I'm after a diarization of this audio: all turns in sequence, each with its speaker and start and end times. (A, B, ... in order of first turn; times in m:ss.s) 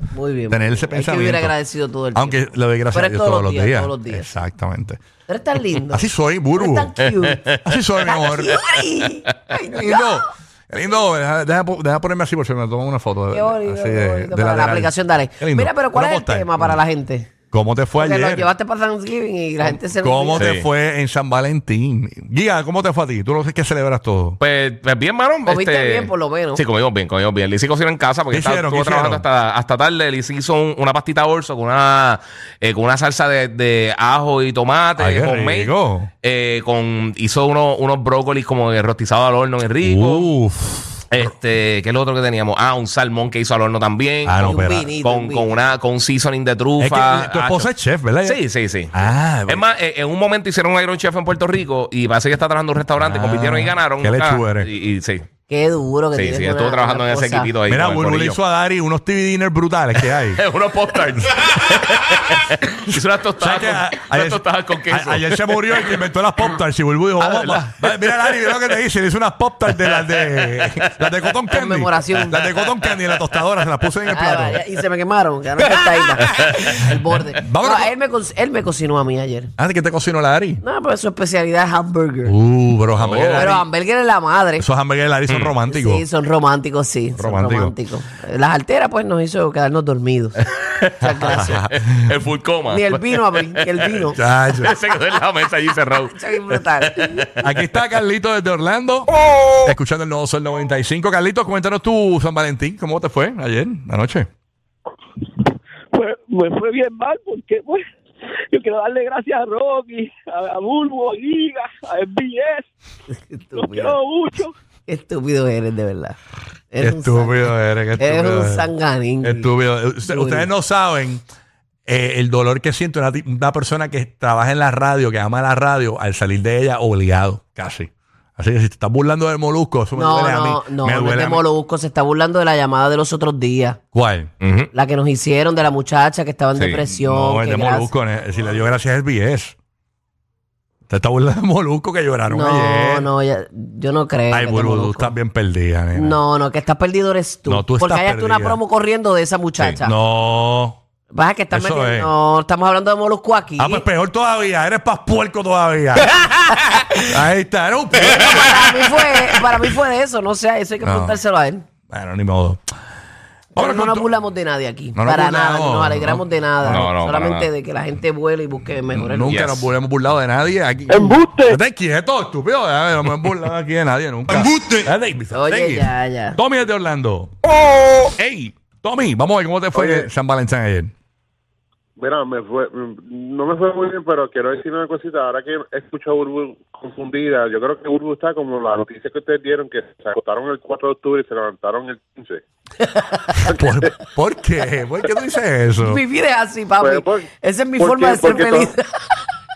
0:00.1-0:04.3 A
0:00.5-0:01.5 B
0:02.1-0:05.0 B
0:05.3-0:07.4 A
0:05.7-0:07.0 B
0:07.0-0:07.8 C
0:07.6-0:08.6 B
0:08.0-0:10.2 A
0:09.6-0:16.8 B
0:13.3-0:17.3 A
0:17.5-0:18.5 B
0:18.0-0:20.5 A
0:19.6-0:24.4 B
0:20.4-0:20.6 C
0:24.4-0:40.3 C
0:25.5-0:26.6 A
0:28.3-0:29.2 B
0:35.0-0:36.1 B
0:39.8-0:41.2 B
0:41.1-0:47.7 C
0:44.2-0:44.9 B
0:44.4-0:45.5 A
0:46.8-0:48.4 B
0:48.2-0:48.9 C
0:48.9-0:49.6 B
0:49.5-0:55.2 C
0:53.0-0:54.7 B
0:55.5-0:57.5 A
0:56.1-0:58.4 C
0:57.7-1:00.4 B
1:00.1-1:05.6 C
1:02.9-1:14.6 B
1:07.2-1:08.6 C
1:09.9-1:10.8 C
1:11.5-1:12.4 A
1:12.9-1:13.2 C
1:14.1-1:19.5 A
1:16.3-1:16.6 C
1:17.3-1:17.9 B
1:19.6-1:20.6 B
1:20.6-1:22.4 A
1:22.2-1:23.6 B
1:23.0-1:23.6 C
1:23.3-1:24.6 A
1:24.6-1:26.0 B
1:25.3-1:25.5 C
1:25.7-1:31.7 A
1:27.2-1:27.7 B
1:30.6-1:37.4 C
1:31.3-1:31.9 B
1:32.7-1:34.2 A
1:34.1-1:34.7 B
1:36.1-1:37.2 A
1:37.4-1:39.1 B
1:39.6-1:44.3 B
1:45.9-1:47.8 D
1:48.5-1:52.7 D
1:53.2-1:54.0 A
1:53.5-1:54.5 D
1:54.9-1:56.2 A
1:56.7-1:59.5 A
1:56.8-1:58.7 B
1:59.2-2:01.2 B
2:00.0-2:00.5 A
2:01.8-2:11.4 B
2:09.9-2:13.8 A
2:13.9-2:14.3 B
2:14.4-2:14.7 C
2:14.7-2:17.9 A
2:16.8-2:19.6 B
2:20.9-2:23.1 B
2:22.3-2:25.1 A
2:24.3-2:26.2 B
2:25.9-2:29.9 A
2:27.5-2:28.6 B
2:29.8-2:30.8 B
2:31.1-2:33.8 A
2:31.5-2:32.1 B
2:33.6-2:36.3 B
2:36.6-2:37.1 A
2:37.1-2:39.7 B
2:38.2-2:41.6 A
2:40.8-2:41.2 B
2:41.9-2:42.6 B
2:43.5-2:49.4 A
2:43.6-2:44.1 B
2:44.9-2:46.9 B
2:46.6-2:47.5 C
2:48.9-2:57.3 B
2:49.3-2:49.6 C
2:50.9-2:51.6 D
2:55.3-2:56.4 A
2:58.1-3:00.9 B
2:59.8-3:00.0 E
3:02.0-3:12.4 E
3:12.8-3:13.5 A
3:13.4-3:16.0 B
3:15.8-3:18.8 A
3:16.8-3:18.7 E